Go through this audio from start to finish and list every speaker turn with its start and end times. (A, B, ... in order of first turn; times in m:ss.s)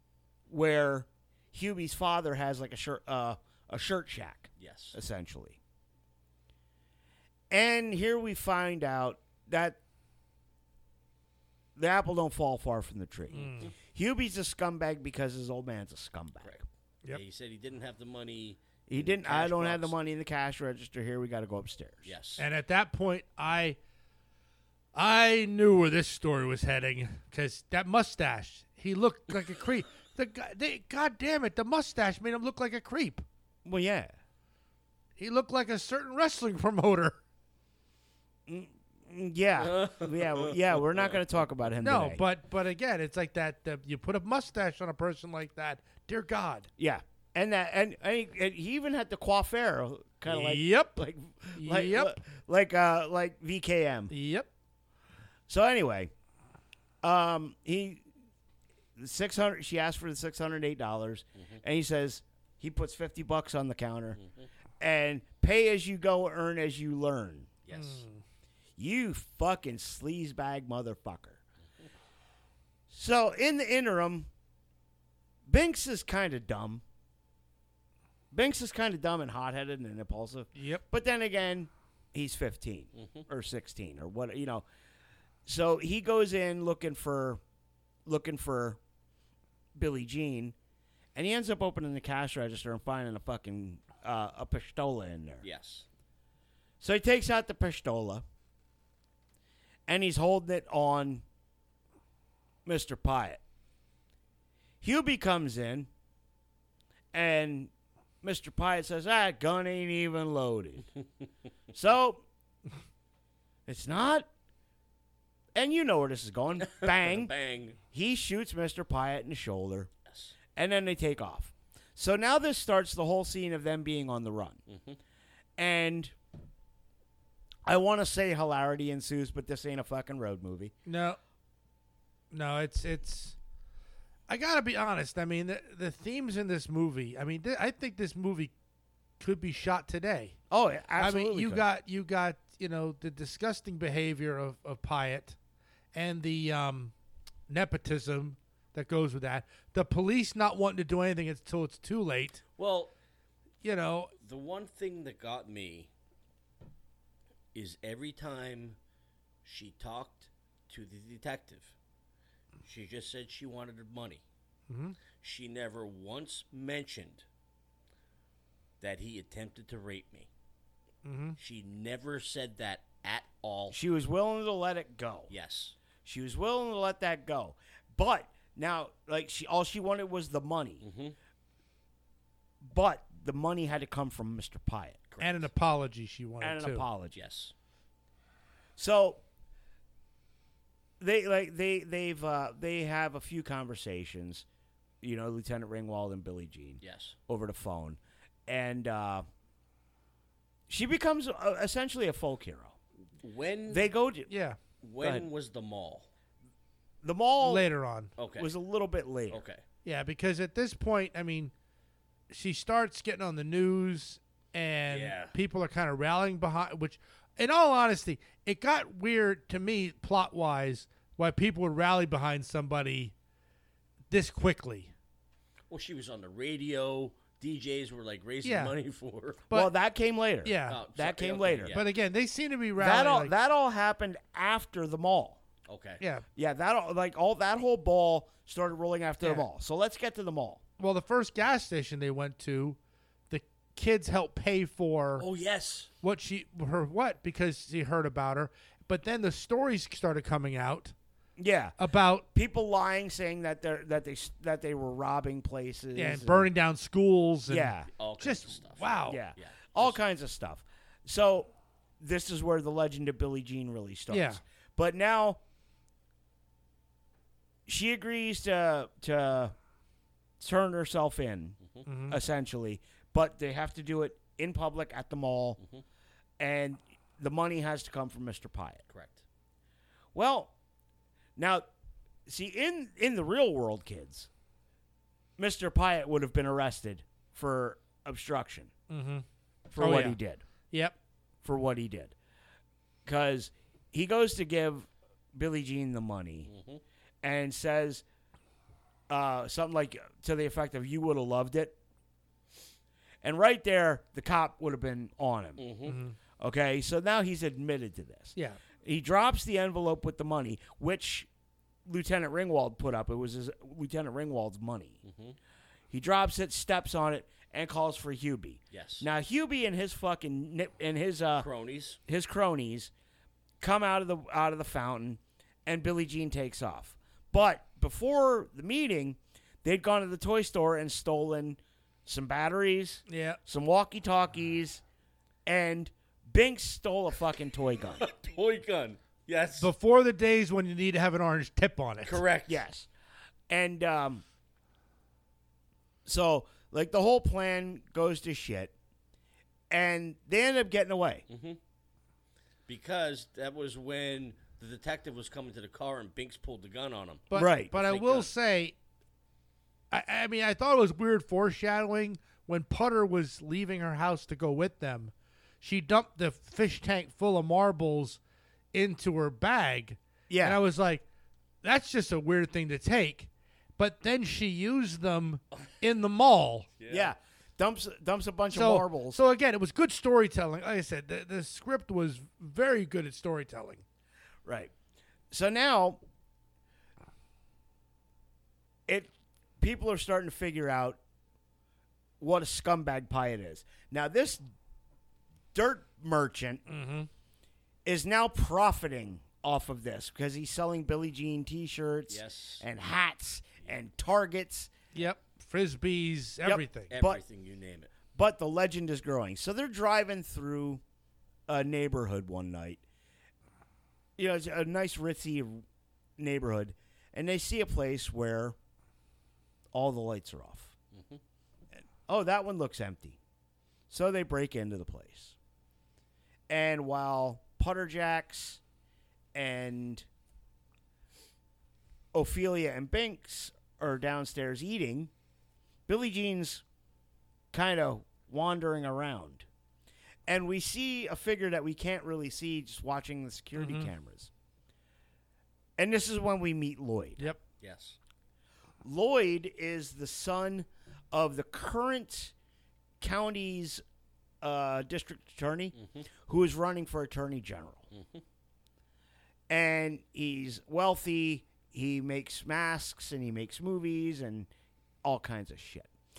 0:00.5-0:05.6 A
0:04.6-0:05.0 B
0:07.5-0:09.8 A
0:11.8-0:16.6 A
0:13.3-0:13.7 C
0:16.4-0:19.9 B
0:18.9-0:22.1 A
0:22.0-0:22.4 B
0:22.4-0:23.8 C
0:24.9-0:33.2 C
0:33.6-0:34.1 A
0:35.2-0:37.2 C
0:38.5-0:42.2 A
0:39.7-0:41.2 B
0:41.8-0:46.7 C
0:46.8-0:54.1 A
0:50.3-0:51.0 C
0:51.5-0:52.2 C
0:54.1-0:54.5 C
0:55.5-0:56.1 A
0:57.0-0:58.0 A
0:59.0-1:04.2 A
1:04.8-1:07.5 A
1:07.6-1:08.0 B
1:07.7-1:08.2 C
1:08.8-1:11.4 A
1:12.9-1:14.3 A
1:15.5-1:16.8 A
1:18.3-1:24.6 A
1:20.6-1:20.8 C
1:25.5-1:27.4 A
1:28.0-1:28.8 A
1:29.7-1:30.5 A
1:31.1-1:35.4 A
1:35.4-1:35.8 B
1:36.8-1:38.2 A
1:39.9-1:41.2 A
1:42.6-1:43.4 A
1:44.8-1:45.9 A
1:47.1-1:47.7 A
1:48.2-1:50.9 A
1:51.7-1:52.2 A
1:53.7-1:54.3 A
1:55.5-1:57.3 A
1:56.6-1:57.8 B
1:57.8-1:59.9 A
2:00.1-2:00.3 B
2:00.5-2:04.6 A
2:04.7-2:05.0 B
2:05.6-2:06.1 A
2:07.7-2:10.7 A
2:10.8-2:11.2 C
2:12.3-2:13.4 C
2:14.3-2:18.5 C
2:19.2-2:20.4 C
2:20.5-2:21.6 A
2:21.0-2:25.4 C
2:25.9-2:26.9 C
2:27.5-2:32.4 C
2:32.6-2:32.9 B
2:33.6-2:34.1 C
2:34.2-2:35.9 B
2:37.5-2:38.8 B
2:39.4-2:41.7 B
2:42.6-2:44.2 B
2:44.7-2:45.0 C
2:45.2-2:47.2 B
2:48.8-2:50.3 B
2:51.0-2:51.4 C
2:51.4-2:53.8 B
2:53.7-2:55.3 A
2:55.3-2:55.7 B
2:56.0-3:00.8 A
3:00.8-3:01.1 B
3:02.6-3:05.0 A
3:05.1-3:05.5 B
3:05.2-3:06.9 C
3:06.4-3:07.2 A
3:07.1-3:07.5 B
3:08.8-3:09.2 A
3:11.0-3:14.4 A
3:15.0-3:19.2 A
3:16.8-3:17.2 B
3:20.7-3:22.7 A
3:23.2-3:23.9 B
3:23.7-3:24.3 A
3:24.3-3:24.6 C
3:24.8-3:26.1 B
3:25.0-3:25.3 A
3:27.0-3:27.7 A
3:27.4-3:28.1 C
3:28.2-3:28.5 B
3:28.4-3:29.4 A
3:29.3-3:29.6 B
3:29.8-3:31.5 C
3:32.3-3:43.1 C
3:34.9-3:35.3 B
3:44.1-3:44.9 C
3:45.7-3:49.4 B
3:48.4-3:48.8 C
3:49.5-3:51.8 A
3:50.4-3:50.8 C
3:50.6-3:51.8 B
3:51.7-3:53.3 C
3:52.8-3:55.4 A
3:55.7-3:56.0 B
3:56.0-3:56.2 C
3:56.4-4:00.6 A
3:59.2-3:59.5 C
4:00.8-4:02.8 C
4:03.3-4:05.3 C
4:05.2-4:05.9 B
4:06.0-4:10.9 C
4:11.4-4:11.8 A
4:11.8-4:12.3 C
4:12.3-4:16.5 A
4:15.9-4:19.2 C
4:17.5-4:17.9 A
4:17.9-4:20.0 B
4:19.1-4:25.4 A
4:24.1-4:24.4 C
4:27.7-4:29.5 A
4:30.4-4:35.6 A
4:31.8-4:32.2 C
4:36.4-4:38.8 A
4:38.9-4:39.2 B
4:40.1-4:40.5 A
4:41.4-4:41.6 A
4:42.2-4:44.3 A
4:45.4-4:48.7 A
4:48.9-4:49.2 C
4:49.7-4:50.4 A
4:49.8-4:50.2 C
4:50.7-4:51.0 C
4:51.4-4:52.1 A
4:53.0-4:56.5 A
4:56.5-4:56.8 B
4:57.2-4:58.0 A
4:59.1-5:01.7 A
5:03.2-5:05.6 A
5:05.6-5:06.0 B
5:05.8-5:06.2 C
5:06.4-5:11.3 A
5:08.3-5:08.6 C
5:11.8-5:15.0 A
5:15.0-5:15.4 B
5:15.9-5:21.5 A
5:18.7-5:19.1 B
5:21.4-5:22.0 B
5:22.0-5:22.9 A
5:23.6-5:34.8 A
5:33.1-5:33.4 C
5:35.4-5:38.1 A
5:38.0-5:39.7 B
5:39.6-5:42.2 C
5:42.0-5:42.6 B
5:42.5-5:42.9 A
5:43.5-5:44.2 A
5:46.0-5:48.7 A
5:49.7-5:51.2 A
5:51.3-5:51.6 B
5:52.7-5:58.3 B
5:57.3-5:58.8 C
5:57.3-5:57.7 A
5:59.9-6:08.2 C
6:08.7-6:11.0 C
6:10.3-6:10.6 A
6:11.6-6:16.7 C
6:16.8-6:17.1 B
6:16.9-6:19.2 A
6:18.5-6:23.8 C
6:24.4-6:24.7 A
6:25.3-6:26.0 A
6:28.9-6:31.0 A
6:32.2-6:34.4 A
6:35.5-6:36.6 A
6:36.7-6:37.1 C
6:37.8-6:44.7 A
6:42.1-6:42.6 B
6:44.9-6:46.9 C
6:46.4-6:47.2 A
6:46.9-6:47.9 B
6:48.1-6:50.8 A
6:51.5-6:52.8 A
6:54.2-6:55.6 A
6:56.2-6:58.6 A
6:59.7-7:00.7 A
7:00.9-7:01.2 B
7:02.1-7:03.2 A
7:03.9-7:05.4 A
7:06.5-7:08.6 A
7:09.3-7:10.0 A
7:12.1-7:15.1 A
7:15.9-7:16.6 A
7:17.5-7:19.4 A
7:20.3-7:24.3 A
7:23.6-7:23.9 C
7:25.8-7:27.4 A
7:27.6-7:28.0 B
7:28.8-7:32.3 A
7:33.0-7:33.8 A
7:34.4-7:35.7 A
7:36.2-7:37.8 A
7:37.9-7:38.2 B
7:39.5-7:44.5 A
7:45.0-7:45.9 A